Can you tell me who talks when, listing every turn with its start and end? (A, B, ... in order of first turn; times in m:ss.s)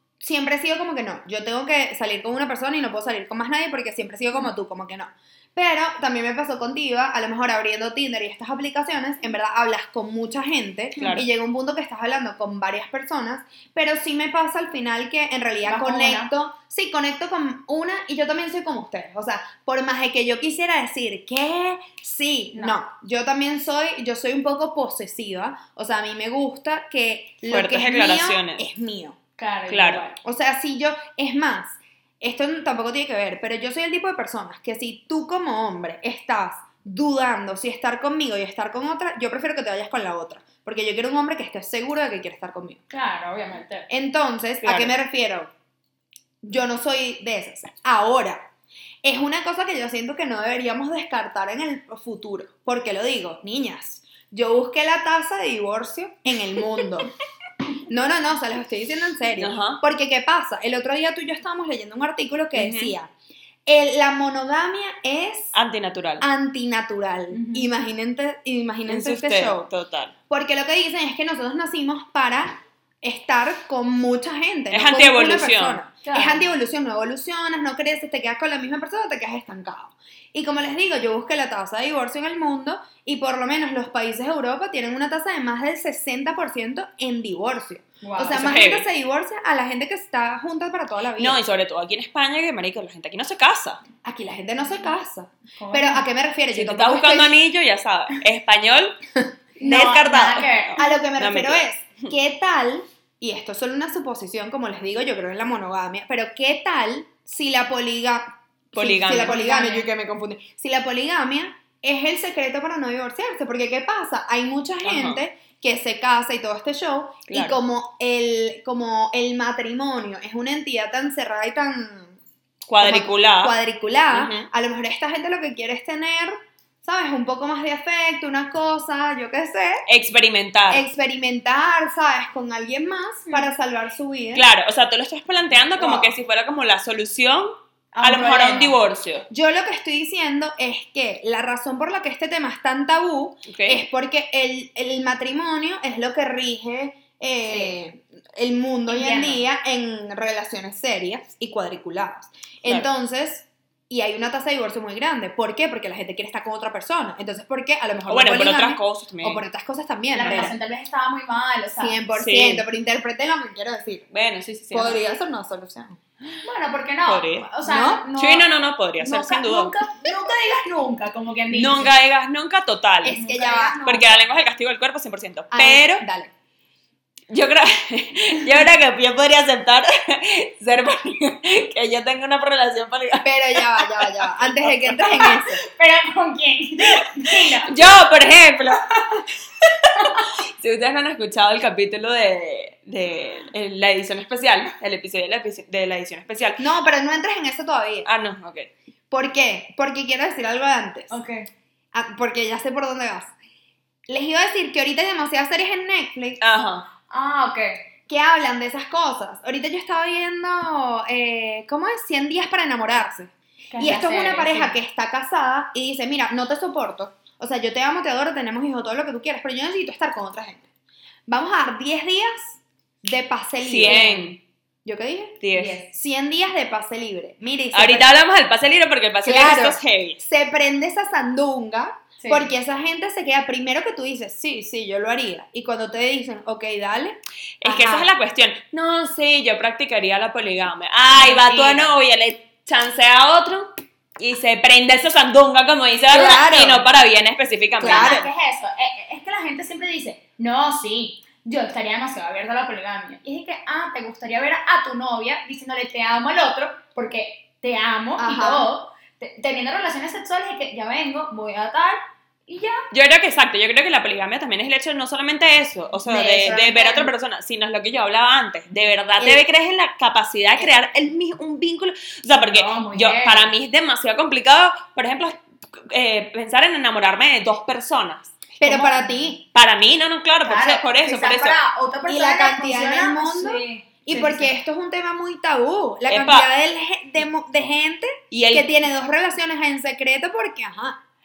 0:00.2-0:29.2 A
0:11.0-0:11.2 B
0:15.6-0:16.3 B
0:22.5-0:22.8 B
0:27.4-0:28.6 C
0:29.4-0:30.2 B
0:29.7-0:30.0 C
0:30.2-0:42.8 A
0:42.9-0:43.9 B
0:43.9-0:45.5 A
0:44.6-0:44.9 C
0:46.4-0:48.5 A
0:49.0-0:57.1 A
0:57.9-1:03.1 A
0:59.4-0:59.8 C
1:02.5-1:02.9 C
1:03.6-1:05.5 A
1:05.5-1:06.2 C
1:06.2-1:09.6 A
1:07.3-1:07.7 B
1:08.9-1:10.1 C
1:10.3-1:31.4 A
1:14.7-1:15.8 C
1:16.0-1:16.5 B
1:28.0-1:28.5 B
1:28.3-1:28.9 C
1:31.2-1:33.8 C
1:34.0-1:37.4 A
1:35.6-1:36.1 B
1:36.5-1:39.0 C
1:39.6-1:40.8 B
1:39.6-1:42.1 C
1:40.8-2:02.2 A
1:48.7-1:49.8 C
1:49.2-1:49.8 B
1:54.8-1:55.2 C
1:57.3-1:57.6 C
2:02.6-2:03.6 C
2:02.8-2:09.8 A
2:04.1-2:04.5 C
2:09.9-2:10.8 C
2:10.7-2:14.4 A
2:14.3-2:19.2 C
2:15.8-2:16.1 A
2:17.9-2:18.8 B
2:19.3-2:40.5 A
2:23.5-2:23.8 C
2:27.4-2:27.7 B
2:28.9-2:29.4 B
2:38.1-2:39.4 C
2:40.1-2:42.0 B
2:40.2-2:40.5 C
2:41.8-2:44.1 A
2:42.2-2:42.6 C
2:44.1-2:45.0 C
2:44.7-2:46.0 A
2:46.4-2:48.5 B
2:47.1-2:47.5 C
2:47.6-2:48.0 A
2:48.1-2:49.7 C
2:49.0-2:51.9 B
2:51.5-2:53.2 C
2:53.0-2:54.3 A
2:53.0-2:53.8 B
2:53.8-2:56.0 C
2:55.5-2:56.3 A
2:57.3-3:05.1 C
3:03.2-3:05.6 A
3:05.6-3:07.7 B
3:07.6-3:08.9 C
3:10.0-3:16.6 C
3:16.6-3:18.1 A
3:18.0-3:18.7 C
3:19.1-3:21.1 A
3:21.1-3:21.5 B
3:21.9-3:23.3 A
3:24.1-3:26.4 A
3:26.4-3:26.9 C
3:27.1-3:27.8 B
3:28.1-3:40.7 A
3:33.7-3:34.8 B
3:41.3-3:44.0 A
3:43.6-3:44.4 C
3:43.8-3:44.3 B
3:44.8-3:48.1 A
3:45.4-3:45.8 C
3:45.5-3:45.9 B
3:47.7-3:50.2 C
3:49.2-3:58.1 A
3:52.2-3:52.5 B
3:57.6-4:08.2 C
4:01.1-4:01.9 B
4:06.1-4:06.8 A
4:07.8-4:08.3 A
4:07.8-4:22.8 B
4:18.2-4:18.7 A
4:22.9-4:38.5 C
4:26.0-4:27.1 B
4:32.4-4:33.5 B
4:38.6-4:39.4 A
4:38.6-4:39.3 B
4:39.5-4:41.6 C
4:40.4-4:44.5 B
4:42.1-4:51.0 A
4:46.1-4:46.5 C
4:48.3-4:48.8 C